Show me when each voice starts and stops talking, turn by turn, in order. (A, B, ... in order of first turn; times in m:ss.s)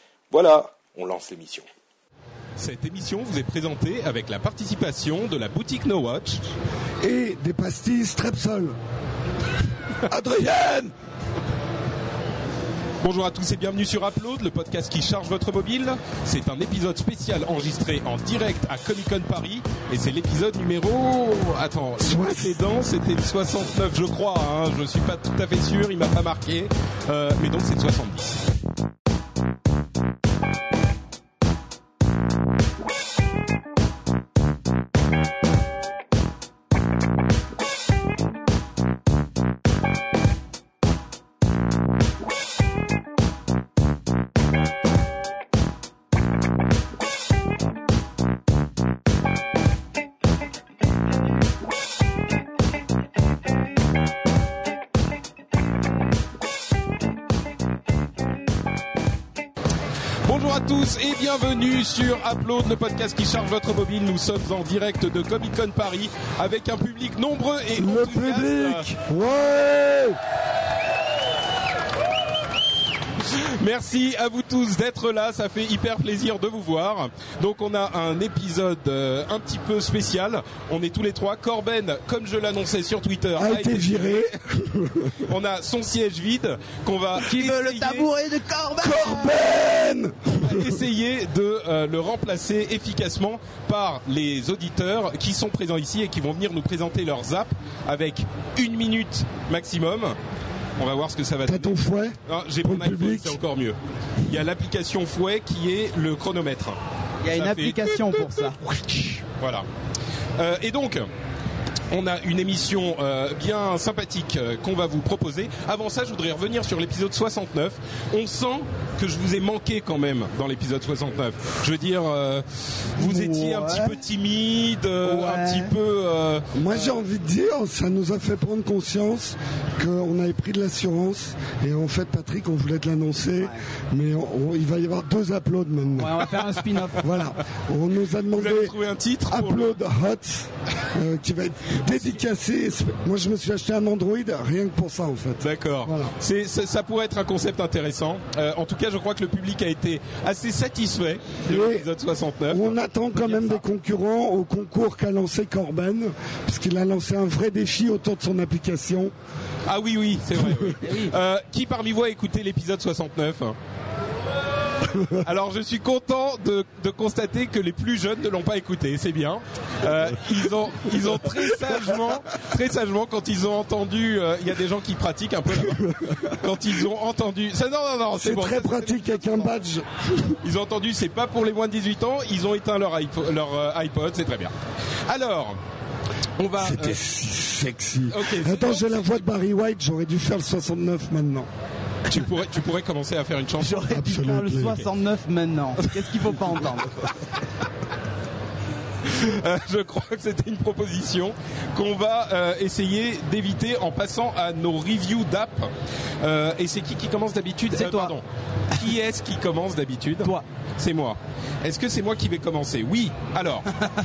0:00.3-0:01.7 A
0:02.6-0:06.5 A
0:07.0-0:08.8 B
0:10.1-0:10.9 B
0:13.0-0:28.4 A
0:22.0-0:22.6 B
1:00.2-1:08.8 A
1:07.8-1:10.2 B
1:13.3-1:24.3 A
1:23.4-1:25.3 B
1:25.3-1:28.1 A
1:27.2-1:29.3 C
1:28.8-1:30.8 B
1:30.4-1:40.2 A
1:40.8-1:46.8 A
1:41.5-1:43.4 B
1:47.2-1:48.6 C
1:47.3-1:49.6 A
1:50.4-1:51.1 A
1:51.9-2:02.4 A
2:03.0-2:06.4 A
2:03.0-2:04.0 C
2:05.0-2:05.7 C
2:06.5-2:16.2 B
2:16.0-2:17.0 C
2:17.0-2:18.8 B
2:18.3-2:19.7 A
2:19.3-2:26.1 B
2:25.4-2:32.8 A
2:31.5-2:31.9 B
2:32.5-2:39.1 B
2:33.2-2:33.6 C
2:39.7-2:43.6 A
2:40.8-2:41.2 C
2:45.2-2:59.6 A
2:58.2-2:59.9 B
3:00.4-3:04.5 A
3:05.1-3:05.6 A
3:06.4-3:07.0 A
3:06.6-3:11.5 B
3:08.1-3:09.2 A
3:12.1-3:13.9 A
3:13.6-3:17.0 C
3:13.9-3:14.8 B
3:19.1-3:25.7 A
3:26.2-3:33.7 A
3:27.7-3:28.2 C